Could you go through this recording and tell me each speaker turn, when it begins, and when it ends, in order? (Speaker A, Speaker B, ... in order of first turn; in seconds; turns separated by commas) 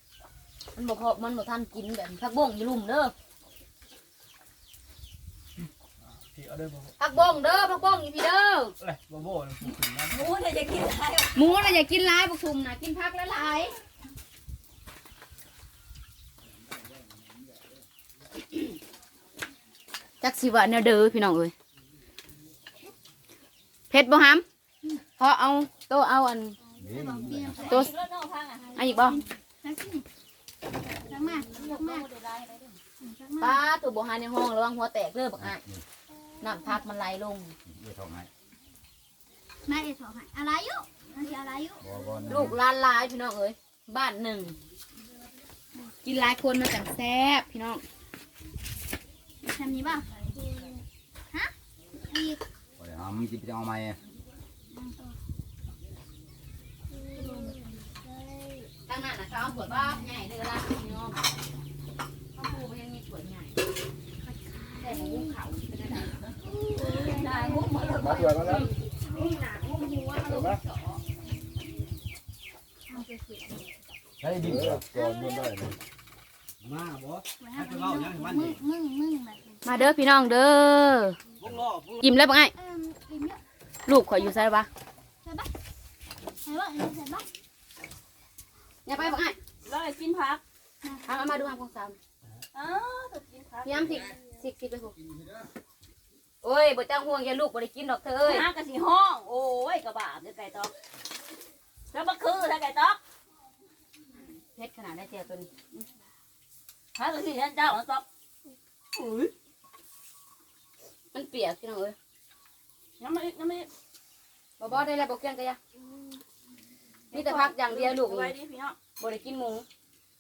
Speaker A: 0.8-3.1, Speaker B: 6.0-7.0, Speaker A: 7.0-8.7, Speaker B: 8.8-10.2, Speaker C: 10.1-11.7, Speaker A: 11.4-13.8, Speaker A: 20.2-21.5, Speaker A: 23.9-24.4, Speaker A: 25.1-26.6, Speaker D: 26.7-27.9, Speaker E: 26.8-27.8, Speaker C: 27.6-28.9, Speaker A: 27.7-27.9, Speaker A: 28.8-29.2, Speaker D: 29.0-30.1, Speaker D: 31.0-32.1, Speaker C: 31.3-32.8, Speaker D: 33.0-33.6, Speaker A: 33.4-35.6, Speaker E: 35.4-35.8, Speaker A: 36.4-37.5, Speaker E: 37.7-38.3, Speaker D: 39.7-41.8, Speaker E: 41.8-42.6, Speaker A: 42.3-44.6, Speaker A: 46.0-47.8, Speaker D: 49.4-50.8, Speaker D: 52.1-52.4, Speaker E: 52.8-54.0, Speaker D: 54.7-55.2, Speaker D: 57.0-58.4, Speaker A: 58.9-61.2, Speaker A: 62.4-63.6, Speaker D: 64.2-65.4, Speaker A: 64.8-66.2, Speaker D: 66.5-68.6, Speaker C: 66.8-68.7, Speaker E: 67.9-68.7, Speaker A: 68.4-70.5, Speaker E: 70.3-70.6, Speaker C: 70.3-71.0, Speaker D: 72.9-73.6, Speaker E: 74.2-75.7, Speaker D: 74.9-75.5, Speaker B: 76.6-78.2, Speaker D: 77.4-79.9, Speaker A: 79.6-81.2, Speaker B: 81.4-82.0, Speaker A: 82.0-82.5, Speaker D: 82.5-83.4, Speaker A: 83.9-84.7, Speaker D: 84.1-84.5, Speaker D: 85.2-85.5, Speaker D: 86.4-87.3, Speaker A: 88.9-89.4, Speaker C: 89.6-90.4, Speaker D: 90.8-91.2, Speaker A: 91.1-92.0, Speaker C: 92.5-94.1, Speaker A: 93.7-94.9, Speaker A: 96.4-98.5, Speaker C: 98.3-100.7, Speaker C: 101.9-103.0, Speaker A: 104.6-105.5, Speaker C: 107.0-108.0, Speaker C: 108.9-109.3, Speaker A: 111.1-112.0, Speaker C: 113.0-113.7, Speaker A: 114.6-115.6, Speaker C: 117.1-118.8, Speaker A: 117.1-118.3, Speaker A: 119.0-119.7